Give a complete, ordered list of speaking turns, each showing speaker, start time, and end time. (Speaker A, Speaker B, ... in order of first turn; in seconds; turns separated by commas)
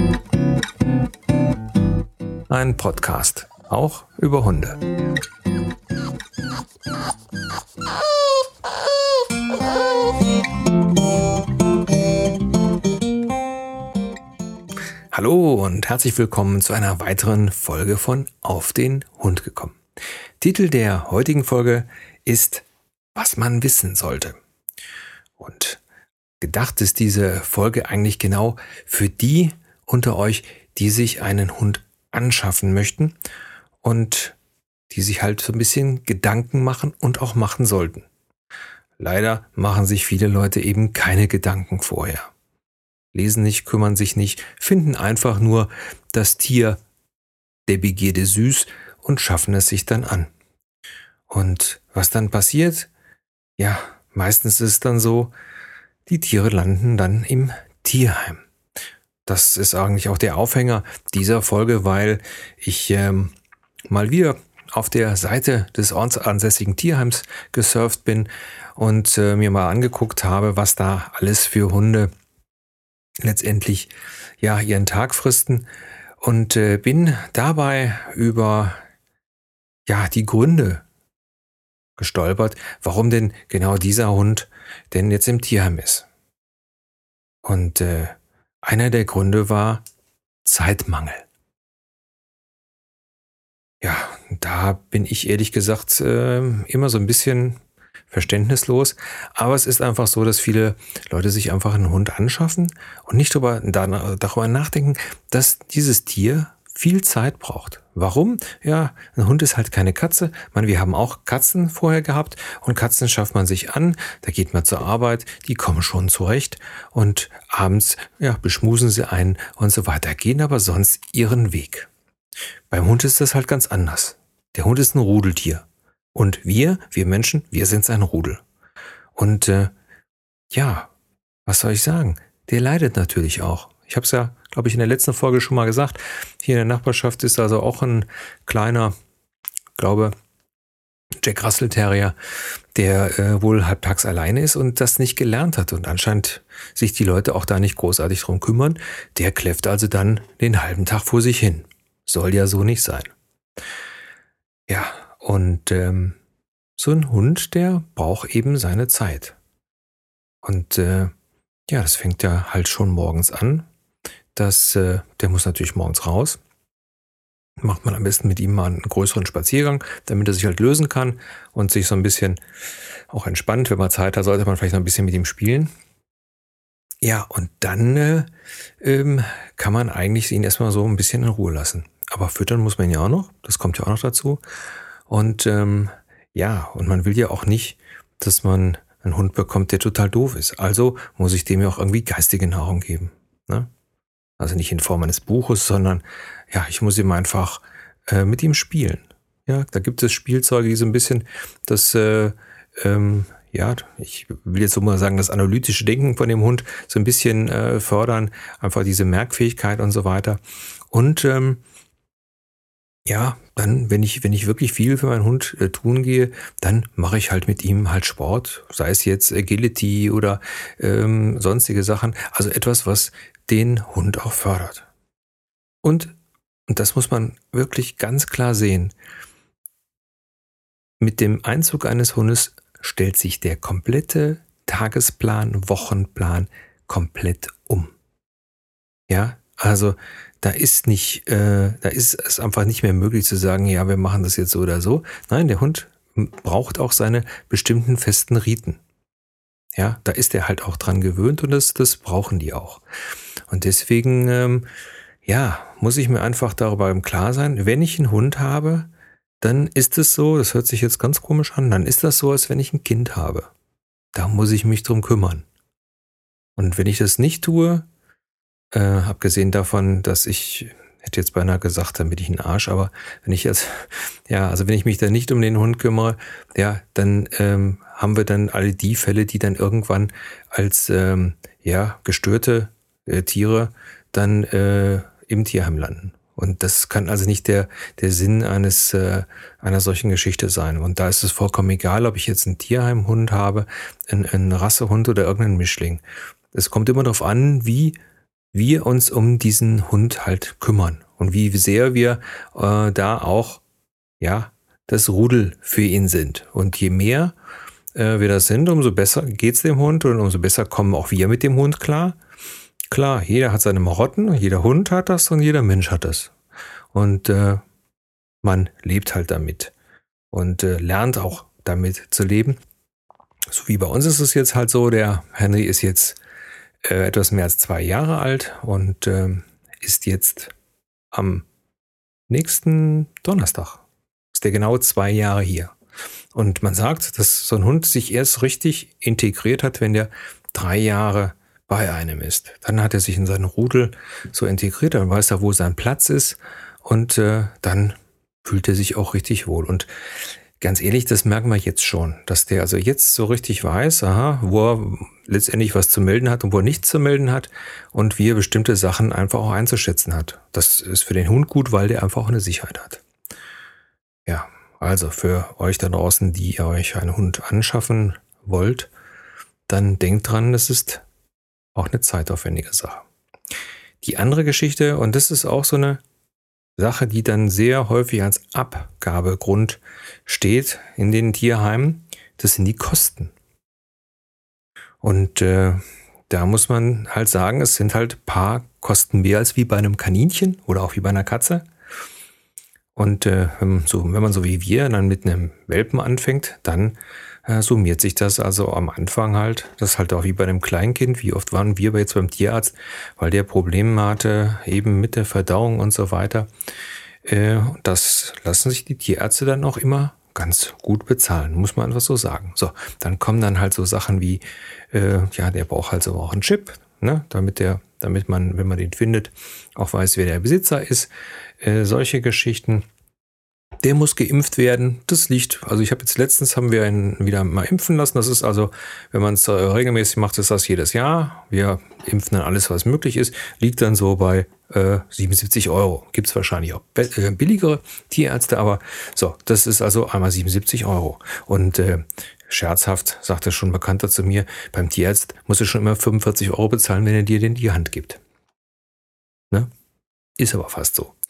Speaker A: 2.5-4.8, Speaker A: 15.1-19.8, Speaker A: 20.4-24.4, Speaker A: 25.4-25.8, Speaker A: 26.4-33.1, Speaker A: 33.8-34.4, Speaker A: 34.9-38.0, Speaker A: 39.0-42.3, Speaker A: 43.1-46.8, Speaker A: 47.7-50.3, Speaker A: 51.3-52.9, Speaker A: 53.6-55.3, Speaker A: 56.0-58.4, Speaker A: 59.2-63.3, Speaker A: 63.9-72.1, Speaker A: 73.2-75.7, Speaker A: 76.2-78.8, Speaker A: 79.9-80.8, Speaker A: 82.0-86.0, Speaker A: 87.4-89.8, Speaker A: 90.4-91.3, Speaker A: 93.8-97.6, Speaker A: 98.1-121.9, Speaker A: 122.7-128.4, Speaker A: 129.2-129.7, Speaker A: 130.5-130.9, Speaker A: 131.4-138.9, Speaker A: 139.8-140.1, Speaker A: 141.2-142.2, Speaker A: 142.7-153.1, Speaker A: 154.7-156.2, Speaker A: 156.8-159.3, Speaker A: 160.4-161.1, Speaker A: 161.7-163.7, Speaker A: 164.3-166.4, Speaker A: 167.6-172.4, Speaker A: 173.1-175.7, Speaker A: 177.0-178.3, Speaker A: 178.8-184.4, Speaker A: 185.1-193.7, Speaker A: 194.4-211.6, Speaker A: 213.1-224.9, Speaker A: 225.8-226.1, Speaker A: 226.7-228.9, Speaker A: 231.0-237.9, Speaker A: 239.1-248.8, Speaker A: 249.7-252.8, Speaker A: 253.5-254.7, Speaker A: 255.2-258.9, Speaker A: 259.4-263.5, Speaker A: 264.1-265.4, Speaker A: 266.6-267.9, Speaker A: 268.7-298.0, Speaker A: 298.5-303.6, Speaker A: 304.2-307.3, Speaker A: 307.9-312.2, Speaker A: 312.9-316.3, Speaker A: 316.9-317.6, Speaker A: 318.4-319.7, Speaker A: 320.3-322.6, Speaker A: 323.5-326.2, Speaker A: 326.8-330.5, Speaker A: 331.1-331.5, Speaker A: 332.3-335.7, Speaker A: 336.3-349.9, Speaker A: 350.6-363.0, Speaker A: 364.2-368.9, Speaker A: 369.7-371.0, Speaker A: 371.7-373.1, Speaker A: 374.0-376.0, Speaker A: 376.8-383.3, Speaker A: 385.0-391.6, Speaker A: 392.9-406.5, Speaker A: 407.2-422.8, Speaker A: 423.8-448.2, Speaker A: 450.4-451.1